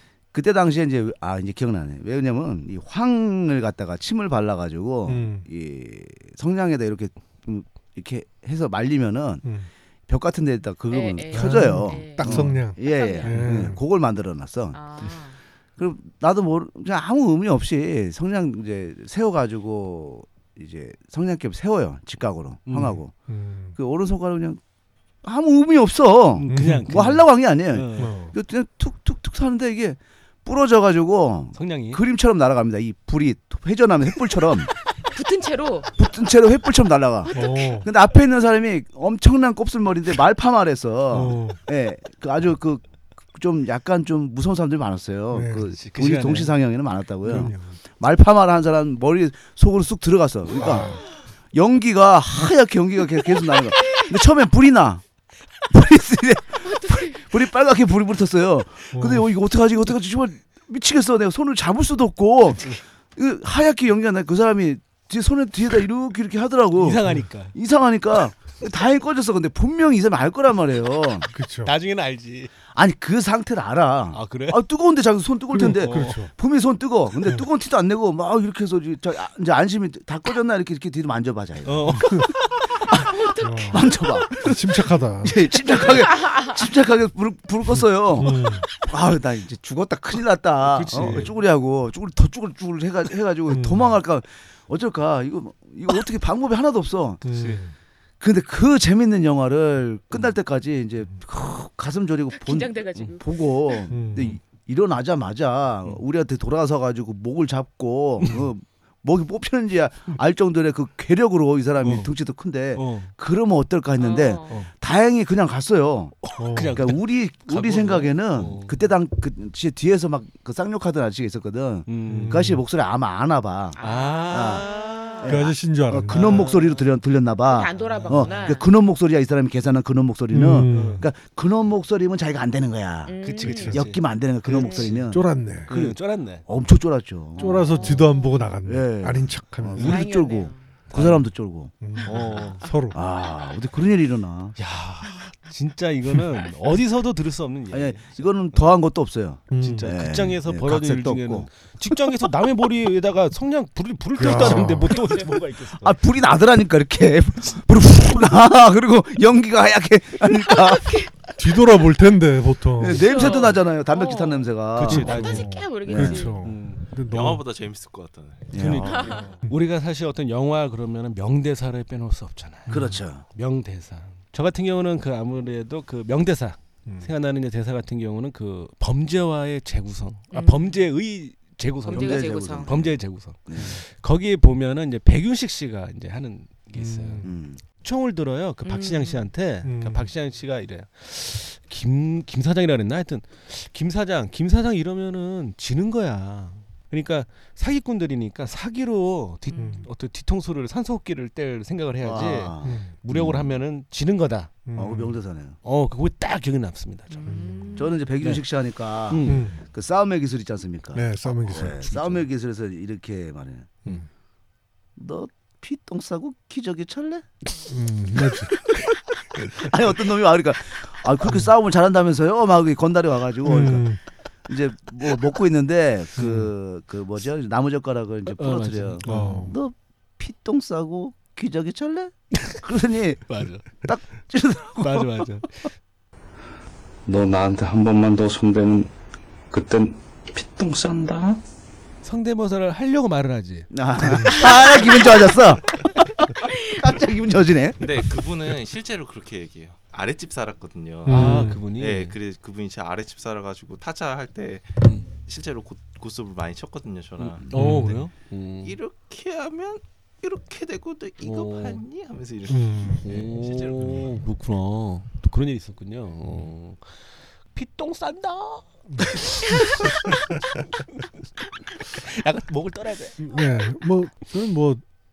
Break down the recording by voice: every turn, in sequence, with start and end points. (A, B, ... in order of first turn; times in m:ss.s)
0:00.3-0:09.4 A
0:05.0-0:05.5 B
0:09.4-0:09.7 B
0:10.1-0:14.8 A
0:10.9-0:13.4 C
0:11.3-0:13.8 B
0:14.7-0:15.4 C
0:15.8-0:23.1 A
0:22.7-0:23.0 D
0:23.3-0:23.8 B
0:23.8-0:24.6 A
0:25.2-0:34.7 A
0:26.3-0:28.1 D
0:26.5-0:26.9 B
0:28.0-0:28.3 B
0:31.5-0:32.0 D
0:35.1-0:36.0 C
0:36.0-0:42.8 A
0:37.2-0:37.8 C
0:37.3-0:37.9 B
0:41.1-0:41.6 B
0:43.3-0:50.9 A
0:45.3-0:45.7 B
0:45.5-0:46.5 D
0:47.2-0:47.8 B
0:50.5-0:51.0 B
0:51.5-0:55.0 A
0:55.7-1:07.0 A
0:56.6-0:57.3 C
0:58.9-0:59.3 B
1:06.8-1:07.5 D
1:07.5-1:11.3 A
1:11.3-1:11.7 B
1:11.6-1:12.5 D
1:12.7-1:22.2 A
1:14.1-1:14.6 D
1:15.5-1:16.3 B
1:15.5-1:16.2 D
1:21.6-1:22.6 D
1:22.0-1:22.3 B
1:22.8-1:24.6 A
1:23.0-1:23.9 C
1:23.4-1:25.4 B
1:25.2-1:37.2 A
1:27.7-1:28.6 B
1:30.6-1:31.3 D
1:31.0-1:31.3 B
1:33.5-1:34.0 B
1:37.2-1:37.7 B
1:37.2-1:37.6 D
1:38.2-1:56.2 A
1:42.4-1:43.9 C
1:43.9-1:44.4 B
1:51.8-1:52.1 D
1:52.7-1:53.1 D
1:54.0-1:54.6 C
1:56.2-1:58.8 D
1:56.4-1:56.9 B
1:56.7-2:03.8 A
2:01.9-2:02.5 D
2:02.1-2:02.6 B
2:03.7-2:05.3 C
2:03.8-2:05.4 D
2:04.3-2:04.6 A
2:05.2-2:17.7 A
2:05.2-2:06.5 B
2:06.1-2:06.9 D
2:07.5-2:08.7 C
2:07.8-2:08.6 D
2:10.3-2:11.1 B
2:10.7-2:11.0 D
2:13.0-2:13.7 C
2:13.2-2:15.1 D
2:13.4-2:13.8 B
2:14.6-2:14.9 C
2:15.1-2:15.7 B
2:15.7-2:16.4 D
2:17.4-2:18.4 C
2:17.4-2:20.0 B
2:18.6-2:21.7 A
2:19.8-2:20.7 C
2:20.9-2:21.3 D
2:21.8-2:23.0 B
2:22.0-2:22.7 C
2:22.0-2:22.6 D
2:22.9-2:24.6 A
2:24.6-2:28.7 D
2:27.7-2:31.5 A
2:29.5-2:29.9 B
2:29.6-2:36.0 D
2:34.2-2:35.0 B
2:34.9-2:35.3 C
2:35.8-2:41.0 A
2:40.5-2:41.1 C
2:41.4-2:43.2 B
2:42.8-2:45.1 A
2:42.9-2:44.5 C
2:44.8-2:45.6 D
2:44.8-2:47.4 B
2:45.0-2:46.4 C
2:45.9-2:46.2 A
2:46.4-2:46.8 D
2:47.1-2:49.2 E
2:48.5-2:49.2 A
2:48.5-2:52.8 D
2:48.9-2:49.3 C
2:52.7-2:53.0 B
2:52.7-2:53.2 A
2:53.3-3:24.6 D
2:56.8-2:57.1 B
3:00.3-3:00.7 C
3:01.8-3:02.7 C
3:01.9-3:03.0 A
3:03.5-3:03.8 A
3:06.8-3:07.3 B
3:07.2-3:07.6 A
3:08.6-3:09.2 C
3:09.6-3:10.1 B
3:19.5-3:19.8 C
3:19.6-3:19.9 B
3:22.0-3:23.5 A
3:22.6-3:22.9 B
3:24.6-3:25.2 B
3:24.7-3:25.6 A
3:25.6-3:27.4 D
3:27.1-3:28.0 C
3:27.2-3:27.7 B
3:27.8-3:33.8 A
3:28.2-3:28.4 D
3:29.0-3:29.4 D
3:29.2-3:29.6 B
3:30.9-3:31.8 B
3:31.5-3:32.3 D
3:35.0-3:37.2 A
3:37.7-3:38.6 B
3:38.7-3:39.0 D
3:39.4-3:43.8 A
3:41.2-3:41.5 B
3:43.4-3:44.0 B
3:44.5-3:53.2 A
3:46.2-3:46.5 B
3:48.3-3:49.4 D
3:49.0-3:49.6 B
3:53.3-3:53.8 D
3:53.8-3:55.2 A
3:54.8-3:55.7 D
3:57.0-3:58.9 F
3:59.5-4:01.4 F
4:02.0-4:05.2 D
4:03.7-4:07.8 A
4:04.0-4:04.4 B
4:04.4-4:04.9 C
4:06.4-4:06.8 C
4:07.8-4:18.0 E
4:11.0-4:11.6 B
4:11.1-4:12.2 D
4:14.8-4:15.1 D
4:17.2-4:18.8 D
4:17.5-4:18.0 B
4:18.6-4:24.1 E
4:21.2-4:21.8 D
4:22.5-4:23.0 B
4:23.0-4:26.9 D
4:26.2-4:26.5 B
4:27.5-4:30.4 D
4:28.9-4:29.2 B
4:31.7-4:33.2 D
4:33.2-4:34.8 B